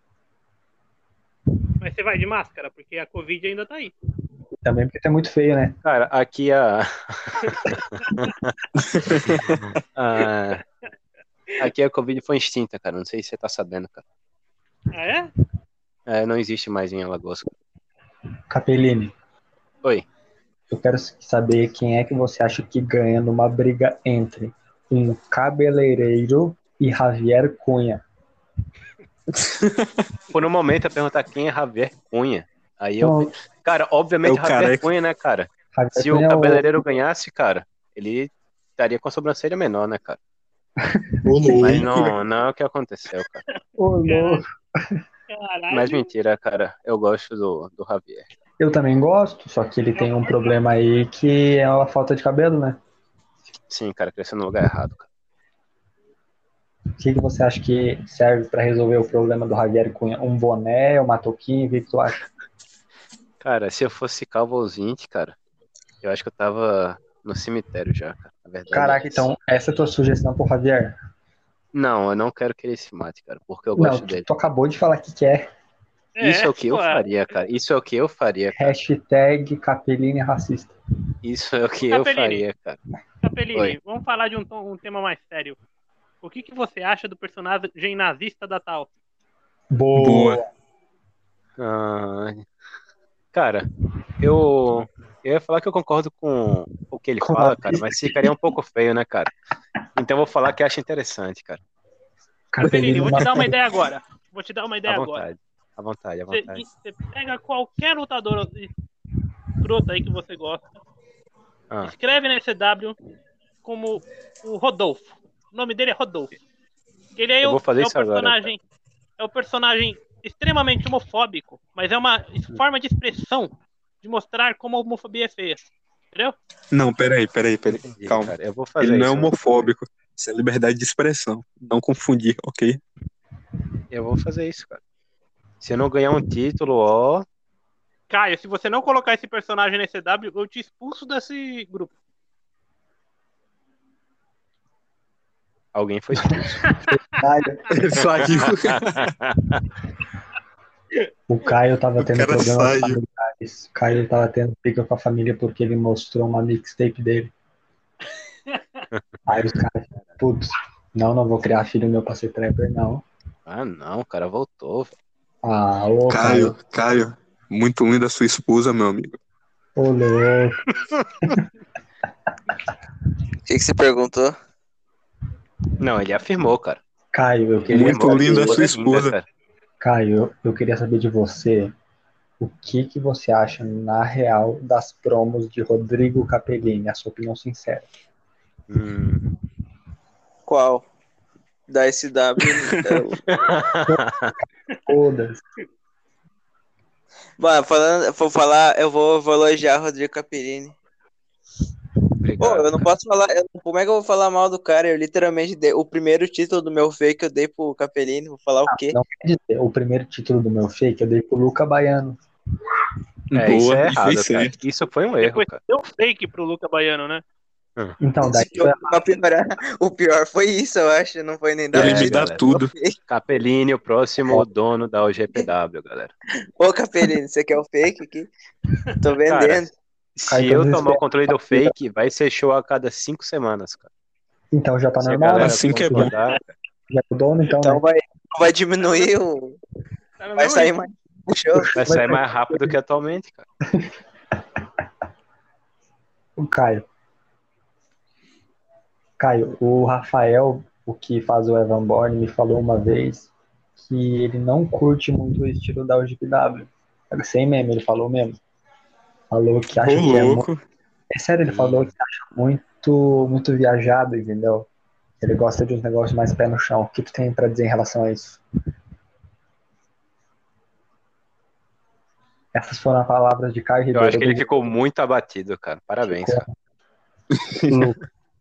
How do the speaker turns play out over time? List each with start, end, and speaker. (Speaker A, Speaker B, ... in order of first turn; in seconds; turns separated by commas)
Speaker A: 1.8-3.9, Speaker B: 4.6-5.8, Speaker C: 5.8-8.5, Speaker A: 8.0-8.3, Speaker D: 8.8-9.6, Speaker C: 9.3-10.6, Speaker C: 11.6-14.0, Speaker A: 14.9-15.3, Speaker C: 16.1-17.5, Speaker B: 18.5-19.1, Speaker B: 20.7-28.0, Speaker D: 29.3-30.0, Speaker C: 30.3-40.2, Speaker B: 33.0-33.3, Speaker D: 34.2-34.9, Speaker B: 35.7-36.6, Speaker B: 40.8-41.8, Speaker D: 41.2-42.1, Speaker C: 41.6-43.4, Speaker A: 43.5-44.4, Speaker B: 43.8-45.0, Speaker A: 45.3-46.1, Speaker C: 45.7-48.3, Speaker B: 48.6-52.8, Speaker A: 50.0-50.3, Speaker C: 53.7-55.1, Speaker B: 57.0-62.2, Speaker C: 63.4-65.3, Speaker C: 66.0-69.3, Speaker B: 68.7-71.0, Speaker C: 71.7-74.3, Speaker B: 73.8-75.5, Speaker A: 76.2-77.0, Speaker C: 76.2-78.8, Speaker B: 78.5-80.7, Speaker C: 81.2-82.8, Speaker A: 81.9-82.4, Speaker A: 83.2-85.6, Speaker A: 86.2-88.9, Speaker B: 89.7-90.5, Speaker D: 90.0-90.4, Speaker C: 91.6-92.5, Speaker C: 93.3-93.7, Speaker C: 94.2-99.3, Speaker B: 97.2-98.3, Speaker C: 100.0-101.6, Speaker B: 102.5-103.6, Speaker A: 102.6-105.2, Speaker C: 104.9-106.6, Speaker A: 106.3-108.7, Speaker A: 109.6-110.7, Speaker A: 111.8-113.0, Speaker A: 113.6-116.3, Speaker A: 117.2-118.6, Speaker C: 117.4-118.5, Speaker A: 119.2-125.6, Speaker D: 126.7-132.8, Speaker C: 127.8-129.4, Speaker C: 133.9-134.8, Speaker C: 135.6-137.2, Speaker A: 138.1-141.9, Speaker C: 145.7-146.7, Speaker B: 146.4-147.7, Speaker A: 146.7-147.0, Speaker D: 147.7-149.1, Speaker C: 148.4-149.6, Speaker B: 151.3-157.3, Speaker D: 152.0-153.0, Speaker A: 158.5-158.8, Speaker B: 159.3-163.0, Speaker C: 163.4-164.9, Speaker B: 165.4-166.6, Speaker D: 166.1-169.2, Speaker B: 169.8-170.6, Speaker E: 173.5-174.3, Speaker C: 175.8-176.8, Speaker B: 177.1-178.6, Speaker C: 177.7-179.2, Speaker D: 177.7-179.1, Speaker B: 179.8-181.7, Speaker B: 182.4-187.9, Speaker C: 188.7-189.3, Speaker E: 190.5-190.8, Speaker E: 191.7-193.2, Speaker C: 193.3-194.3, Speaker B: 194.8-195.4, Speaker E: 197.4-200.7, Speaker C: 202.2-202.9, Speaker E: 202.4-208.9, Speaker B: 208.7-212.2, Speaker D: 213.3-214.6, Speaker C: 213.3-215.6, Speaker A: 215.2-217.2, Speaker B: 218.0-219.0, Speaker E: 218.2-222.9, Speaker C: 221.7-222.4, Speaker D: 221.7-222.7, Speaker C: 223.1-226.1, Speaker E: 226.6-228.3, Speaker E: 229.0-229.7, Speaker C: 229.3-233.9, Speaker B: 230.3-231.7, Speaker B: 234.5-236.1, Speaker C: 235.0-236.5, Speaker D: 235.4-236.1, Speaker B: 236.9-237.8, Speaker E: 237.6-239.6, Speaker A: 240.2-240.8, Speaker E: 240.4-241.7, Speaker B: 241.5-242.7, Speaker C: 241.8-243.4, Speaker B: 246.4-246.8, Speaker B: 249.2-258.4, Speaker B: 259.3-260.5, Speaker D: 259.8-260.6, Speaker B: 261.1-264.7, Speaker C: 261.4-261.9, Speaker B: 265.2-268.4, Speaker B: 272.5-274.4, Speaker C: 273.9-276.5, Speaker B: 276.0-276.5, Speaker D: 277.3-277.9, Speaker B: 277.7-278.0